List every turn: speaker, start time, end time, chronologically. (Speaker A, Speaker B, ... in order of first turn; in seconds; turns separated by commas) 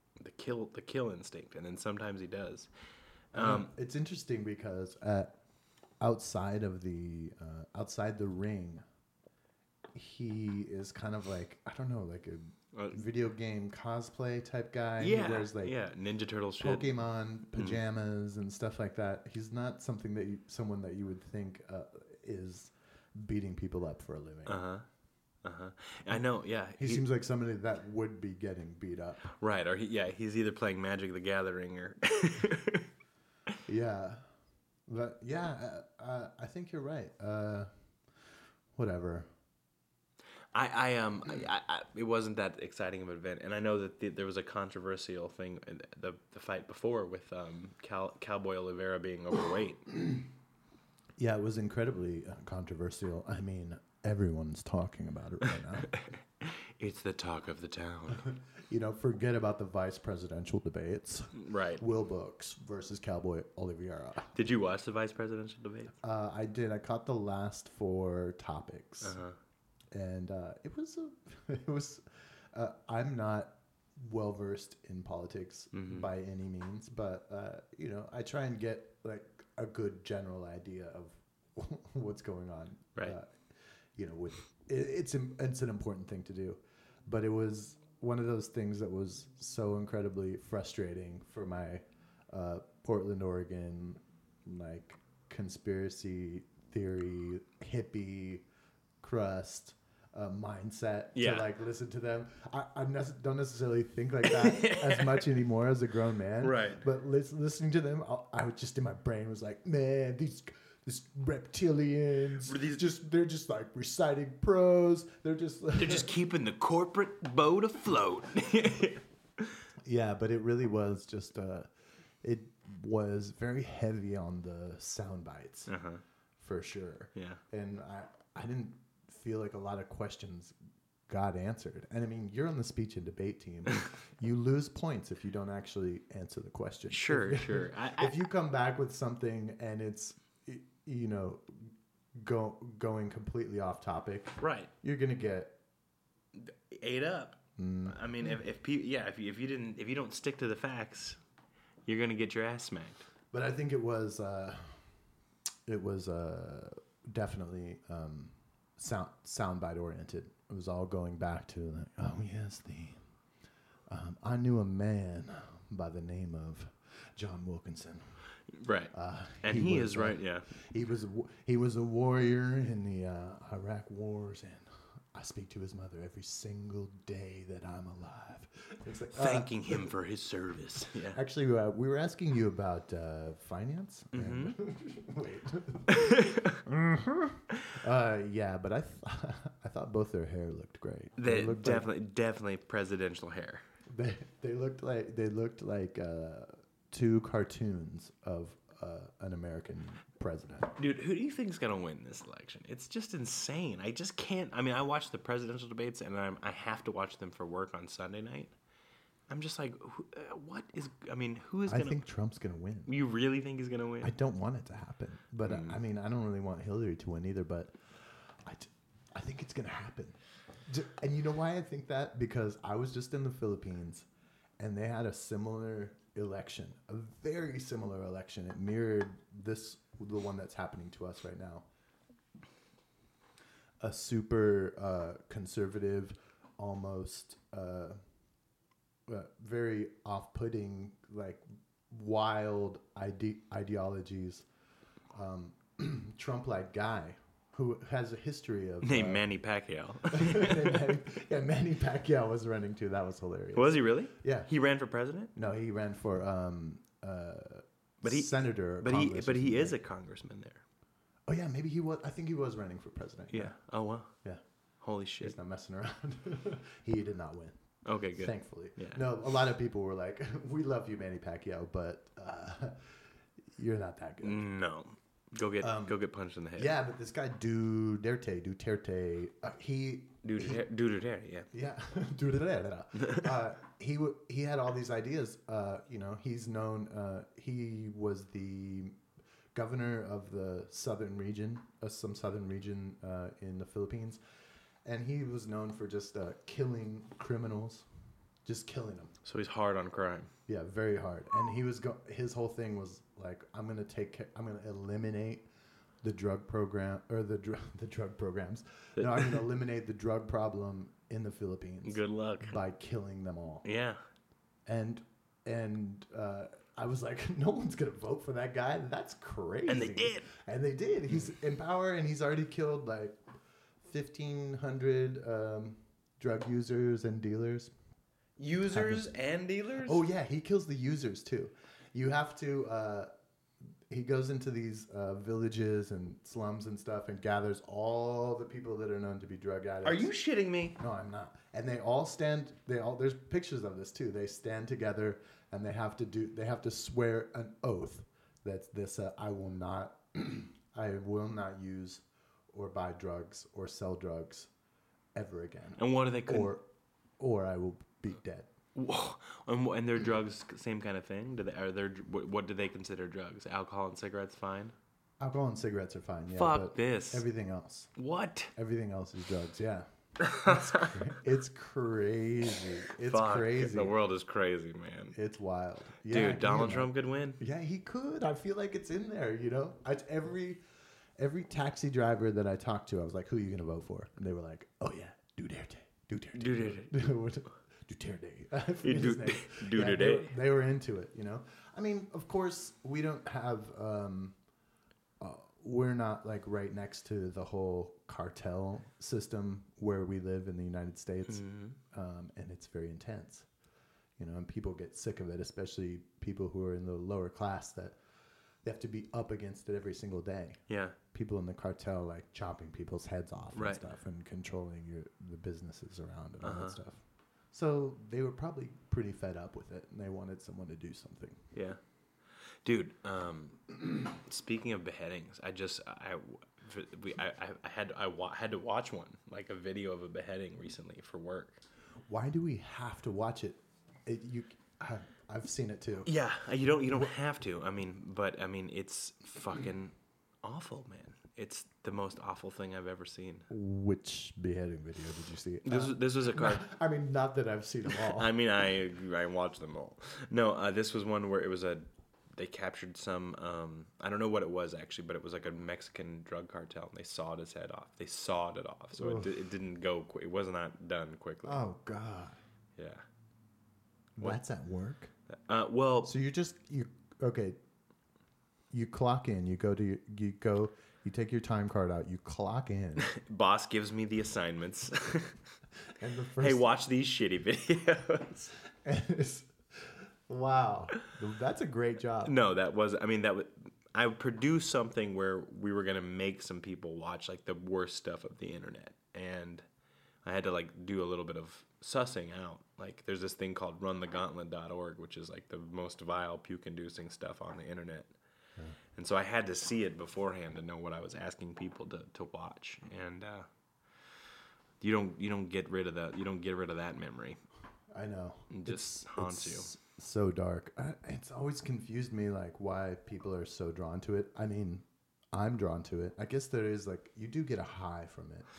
Speaker A: 0.2-2.7, Speaker A: 3.3-3.7, Speaker B: 3.3-5.4, Speaker B: 6.0-8.8, Speaker B: 9.9-15.8, Speaker A: 12.7-13.1, Speaker A: 15.0-17.0, Speaker B: 16.6-24.6, Speaker A: 17.5-17.8, Speaker A: 24.5-24.9, Speaker A: 25.4-27.1, Speaker B: 26.8-29.2, Speaker A: 29.3-32.9, Speaker B: 33.7-34.2, Speaker B: 34.9-37.7, Speaker B: 38.8-39.3, Speaker A: 40.5-49.9, Speaker B: 51.2-55.9, Speaker A: 55.9-58.3, Speaker B: 58.3-64.3, Speaker A: 61.4-61.8, Speaker A: 64.3-66.0, Speaker B: 66.0-69.2, Speaker A: 69.0-69.4, Speaker B: 69.9-83.4, Speaker A: 75.7-76.1, Speaker B: 84.0-98.5, Speaker B: 99.0-116.1, Speaker A: 101.2-101.5, Speaker A: 104.3-105.3, Speaker A: 106.4-106.8, Speaker A: 112.4-112.8, Speaker A: 115.8-119.6, Speaker B: 119.8-121.7, Speaker B: 122.2-125.7, Speaker A: 125.7-126.0, Speaker B: 126.4-130.6, Speaker A: 127.2-127.4, Speaker B: 131.1-145.6, Speaker A: 136.9-138.2, Speaker A: 144.4-144.7, Speaker A: 146.3-151.2, Speaker B: 147.6-148.0, Speaker A: 151.9-153.1, Speaker B: 153.3-154.8, Speaker B: 155.7-163.0, Speaker B: 163.9-168.3, Speaker A: 168.5-170.5, Speaker B: 168.9-179.9, Speaker A: 179.1-181.2, Speaker B: 181.1-191.9, Speaker A: 184.1-184.6, Speaker A: 185.9-186.6, Speaker A: 191.2-193.6, Speaker B: 193.9-200.8, Speaker A: 200.8-208.5, Speaker A: 209.3-212.0, Speaker B: 211.7-212.9, Speaker A: 212.9-214.1, Speaker B: 214.0-224.1, Speaker A: 215.4-215.8, Speaker B: 224.6-231.7, Speaker B: 233.8-238.0, Speaker B: 239.1-244.5, Speaker B: 245.1-249.2, Speaker A: 248.8-250.9, Speaker B: 250.1-254.5, Speaker A: 253.6-255.3, Speaker B: 255.3-259.8, Speaker A: 258.0-260.6, Speaker B: 261.3-263.6, Speaker A: 263.3-264.1, Speaker B: 264.1-264.4, Speaker A: 264.8-265.4, Speaker B: 265.2-272.9, Speaker A: 267.9-269.1, Speaker B: 273.6-274.4, Speaker A: 274.2-276.7, Speaker B: 275.6-276.0, Speaker B: 276.6-280.6, Speaker A: 280.2-281.5, Speaker B: 281.5-289.0, Speaker A: 283.0-283.3, Speaker B: 289.5-294.2, Speaker B: 294.9-297.9, Speaker B: 298.4-299.1, Speaker A: 299.2-300.3, Speaker B: 300.5-305.5, Speaker B: 306.0-313.6, Speaker A: 309.0-309.4, Speaker A: 311.9-312.6, Speaker A: 313.6-314.0, Speaker B: 314.7-323.2, Speaker A: 319.7-320.3, Speaker B: 323.8-327.7, Speaker A: 328.4-330.0, Speaker B: 328.7-329.1, Speaker B: 329.8-333.1, Speaker B: 333.9-340.1, Speaker A: 339.8-340.8, Speaker B: 340.8-354.5, Speaker B: 355.1-356.6, Speaker A: 355.8-356.5, Speaker B: 357.2-358.5, Speaker A: 358.8-364.7, Speaker B: 365.2-367.9, Speaker A: 366.3-367.2, Speaker A: 368.0-368.5, Speaker B: 368.6-374.0, Speaker A: 370.2-371.1, Speaker A: 373.0-375.2, Speaker B: 375.1-380.6, Speaker A: 376.1-377.4, Speaker B: 381.2-394.4, Speaker A: 386.4-387.0, Speaker A: 388.8-390.3, Speaker B: 395.2-403.5, Speaker A: 401.3-401.8, Speaker B: 404.2-408.0, Speaker B: 408.6-417.0, Speaker A: 410.7-411.0, Speaker A: 413.5-413.8, Speaker A: 416.4-416.8, Speaker B: 417.5-421.4, Speaker A: 421.5-421.8, Speaker A: 422.6-431.6, Speaker B: 432.1-436.1, Speaker A: 436.1-443.5, Speaker B: 443.5-448.3, Speaker A: 445.6-446.6, Speaker A: 447.9-461.6, Speaker B: 459.0-459.4, Speaker B: 461.4-462.4, Speaker A: 462.8-463.0, Speaker B: 464.2-465.1, Speaker A: 465.3-466.1, Speaker B: 466.0-467.6, Speaker B: 468.7-473.1, Speaker A: 473.0-475.4, Speaker B: 476.0-476.7, Speaker A: 476.4-478.5, Speaker B: 478.8-482.3, Speaker A: 482.2-489.6, Speaker A: 490.2-498.1, Speaker A: 499.0-503.5, Speaker A: 504.8-507.4, Speaker B: 507.9-518.5, Speaker A: 508.5-509.7